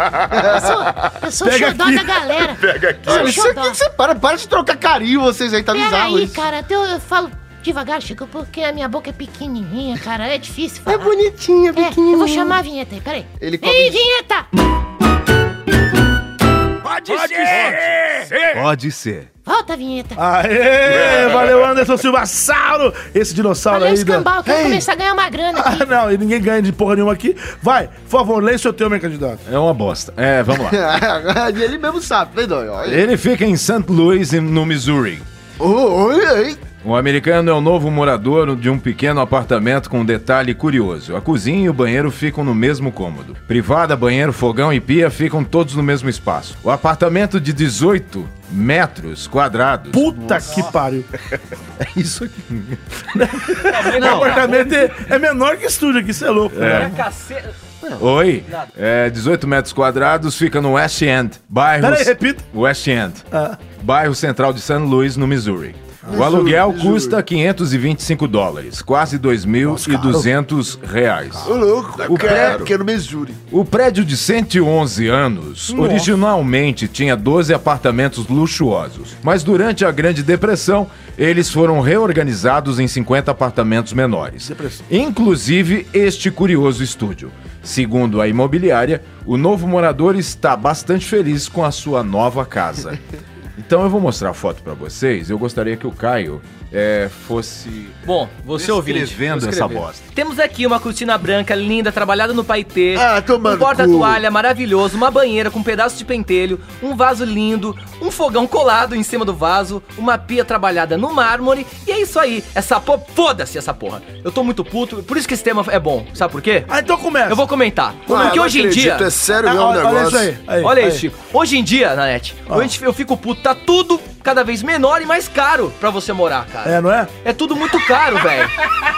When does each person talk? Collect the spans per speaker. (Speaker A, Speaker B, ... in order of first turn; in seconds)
Speaker A: 0.3-0.7, 3.0-6.4, 10.9-12.6, 13.4-14.0, 30.5-33.0, 35.6-36.6, 66.1-67.2, 71.4-73.4, 102.9-104.2
Speaker B: 0.3-3.8, 5.7-11.2, 11.7-14.4, 19.4-20.2, 23.7-25.9
Speaker C: 1.4-2.2, 20.2-24.4, 25.5-29.4, 49.9-51.1, 53.1-56.9, 61.8-62.4, 63.3-63.6, 66.0-66.3, 69.6-70.3, 75.7-76.1, 84.4-84.8, 116.7-117.4, 118.1-118.4, 119.4-121.0, 126.6-127.1
Speaker D: 2.5-3.4, 71.9-72.7, 118.1-120.3
Speaker E: 16.8-19.3, 21.1-21.5, 29.5-30.8, 32.9-35.2, 36.8-50.1, 56.5-56.9, 58.0-63.2, 63.8-71.5, 72.0-72.6, 73.5-93.0, 93.6-98.0, 98.5-100.0
Speaker F: 17.1-17.8, 50.2-50.8, 53.6-55.1, 56.6-57.5, 98.0-116.7, 117.3-119.1, 120.6-128.5